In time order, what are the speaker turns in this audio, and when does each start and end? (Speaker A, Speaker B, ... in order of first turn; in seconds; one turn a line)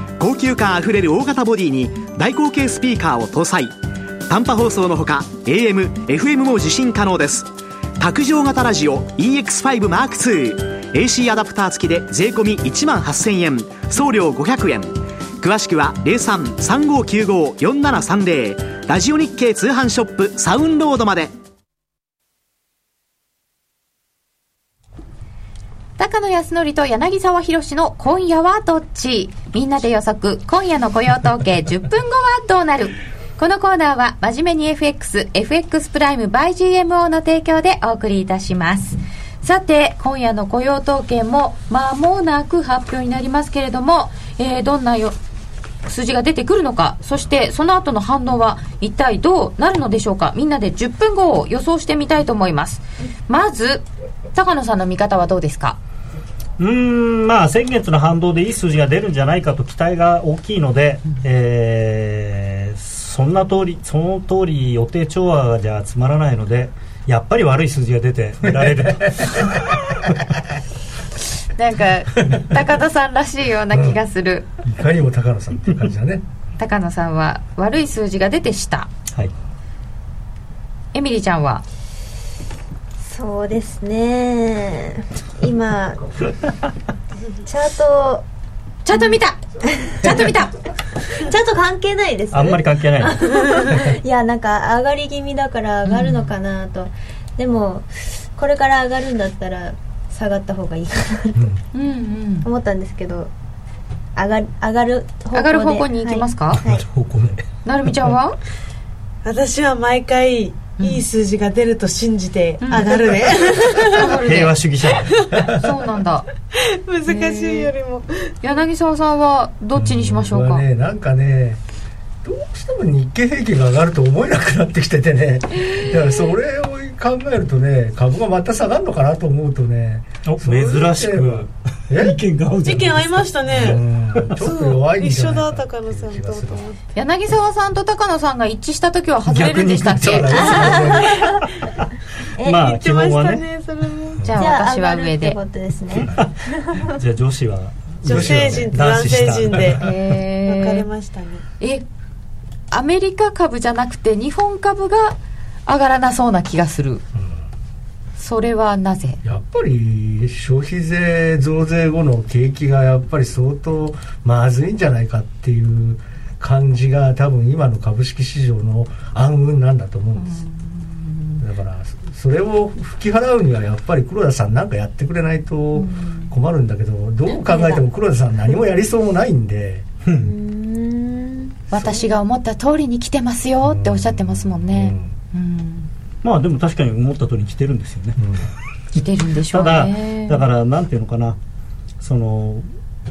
Speaker A: 0.2-21.3
Speaker B: 26.0-45.2
Speaker B: 45.9-55.8
Speaker C: 56.6-70.2
Speaker D: 68.5-69.5
Speaker B: 71.6-74.5
Speaker D: 73.7-74.0
Speaker D: 74.6-76.2
Speaker B: 76.6-78.9
Speaker B: 80.9-81.7
Speaker E: 83.0-86.4
Speaker E: 87.4-88.2
Speaker B: 88.8-89.4
Speaker E: 89.8-90.3
Speaker B: 89.9-90.5
Speaker E: 91.1-101.5
Speaker C: 92.3-93.2
Speaker B: 95.9-96.2
Speaker D: 101.3-101.6
Speaker B: 101.7-102.5
Speaker E: 102.5-103.3
Speaker E: 104.2-106.8
Speaker B: 105.3-106.6
Speaker C: 106.7-107.2
Speaker D: 106.7-107.4
Speaker B: 107.7-108.4
Speaker F: 109.2-114.2
Speaker B: 112.6-113.0
Speaker B: 113.9-114.6
Speaker C: 114.0-115.2
Speaker F: 114.9-115.4
Speaker B: 115.4-116.3
Speaker F: 116.9-118.3
Speaker B: 117.1-117.7
Speaker B: 118.4-120.6
Speaker D: 119.8-121.6
Speaker D: 122.2-132.2
Speaker C: 130.2-134.4
Speaker F: 132.6-133.8
Speaker D: 133.5-136.6
Speaker F: 134.4-136.8
Speaker B: 137.0-140.4
Speaker C: 139.2-141.9
Speaker D: 140.0-141.2
Speaker E: 140.3-141.4
Speaker E: 142.4-142.7
Speaker C: 142.4-143.4
Speaker F: 142.6-144.3
Speaker B: 144.3-145.4
Speaker E: 144.3-146.9
Speaker C: 146.1-149.8
Speaker F: 148.1-151.4
Speaker D: 148.1-149.7
Speaker B: 149.8-150.9
Speaker B: 152.7-157.0
Speaker B: 158.2-159.2
Speaker D: 159.2-170.4
Speaker B: 170.2-171.4
Speaker D: 171.4-179.9
Speaker E: 177.3-177.8
Speaker E: 180.1-181.6
Speaker D: 181.7-182.0
Speaker B: 181.7-185.9
Speaker D: 183.6-185.1
Speaker C: 186.2-188.2
Speaker D: 188.2-188.5
Speaker B: 188.9-190.4
Speaker C: 189.5-191.4
Speaker C: 192.0-192.7